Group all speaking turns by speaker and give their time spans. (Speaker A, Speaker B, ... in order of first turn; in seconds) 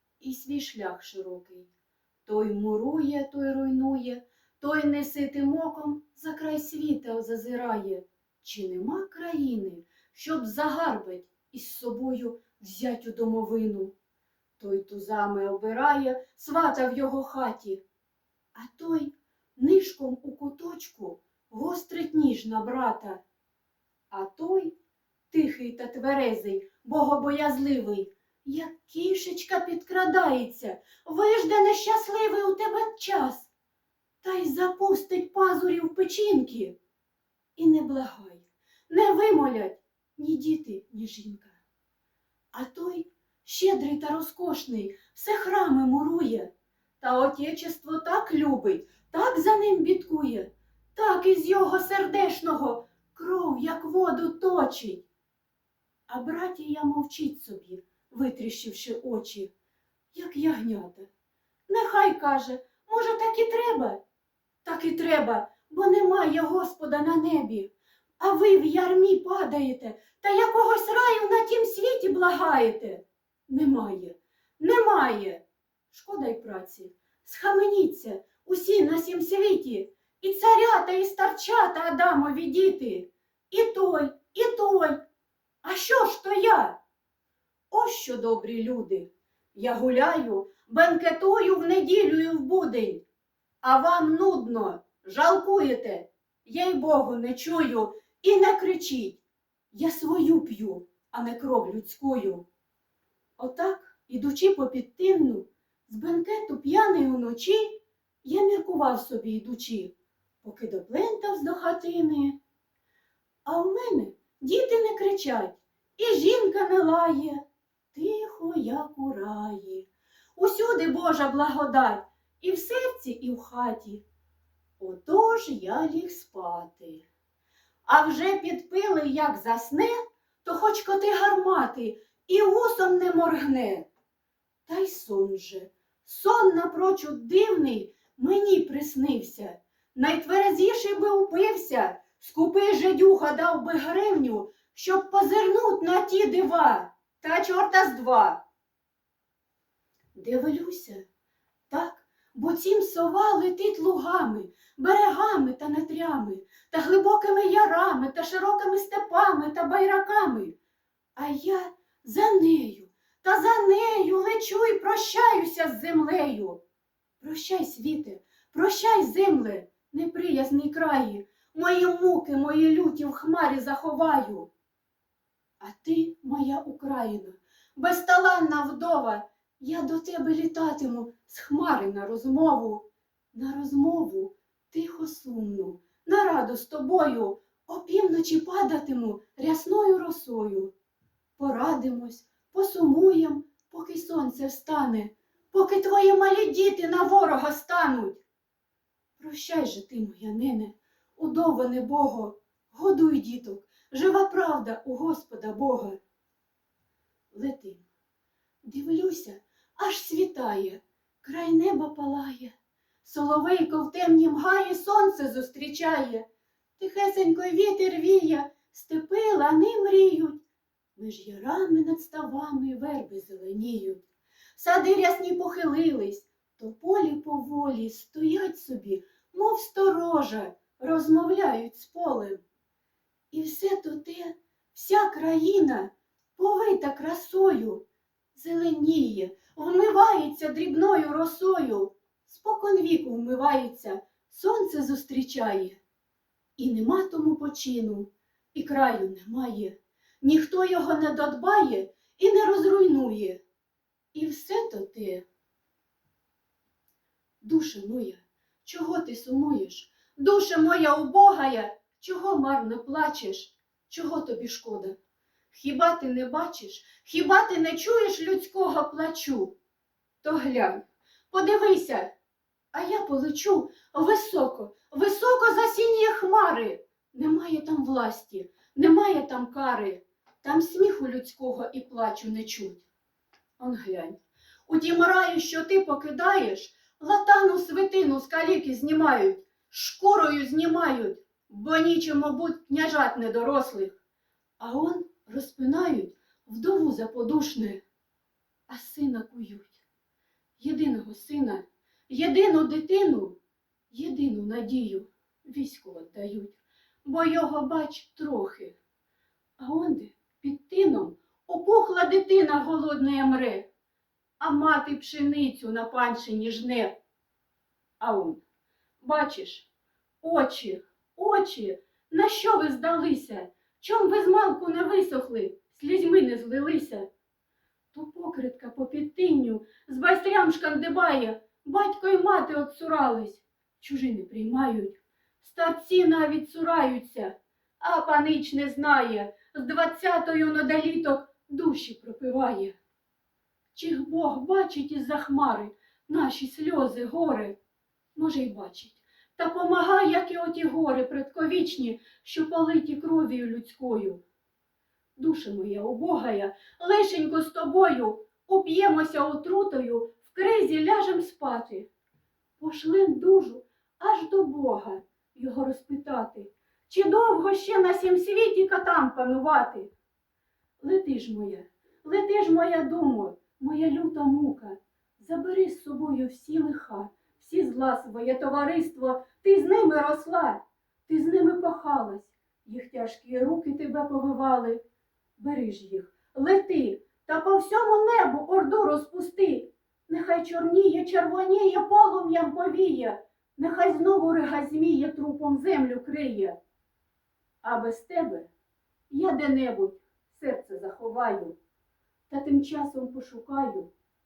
Speaker A: 0.2-1.7, 2.2-13.9, 14.6-17.8, 18.5-23.2, 24.1-24.8, 25.3-33.5, 34.2-36.8, 37.5-41.6, 42.5-55.0, 56.1-59.5, 60.1-61.1, 61.7-64.0, 64.6-85.0, 85.6-86.8, 87.7-93.0, 93.6-99.2, 99.7-102.4, 103.4-112.4, 113.4-124.0, 124.8-127.0, 127.8-133.9, 134.7-148.4, 150.1-151.1, 151.7-160.6, 161.2-166.6, 167.2-174.5, 175.6-190.7, 191.4-198.2, 199.2-206.0, 207.3-207.8, 208.6-216.2, 216.8-220.4, 220.9-224.0, 224.6-232.4, 233.3-237.8, 238.3-245.8, 246.6-253.4, 254.1-255.2, 257.4-265.0, 265.5-269.5, 270.2-272.1, 272.7-282.8, 283.6-294.0, 294.6-297.8, 298.7-299.8, 300.6-303.4, 303.9-308.8, 309.6-313.7, 314.4-317.0, 318.0-318.4, 319.0-319.7, 320.2-327.1, 327.9-342.8, 343.7-347.6, 348.1-354.2, 355.2-361.9, 362.6-369.9, 370.8-384.8, 385.4-396.6, 397.6-398.5, 399.1-401.6, 402.3-403.9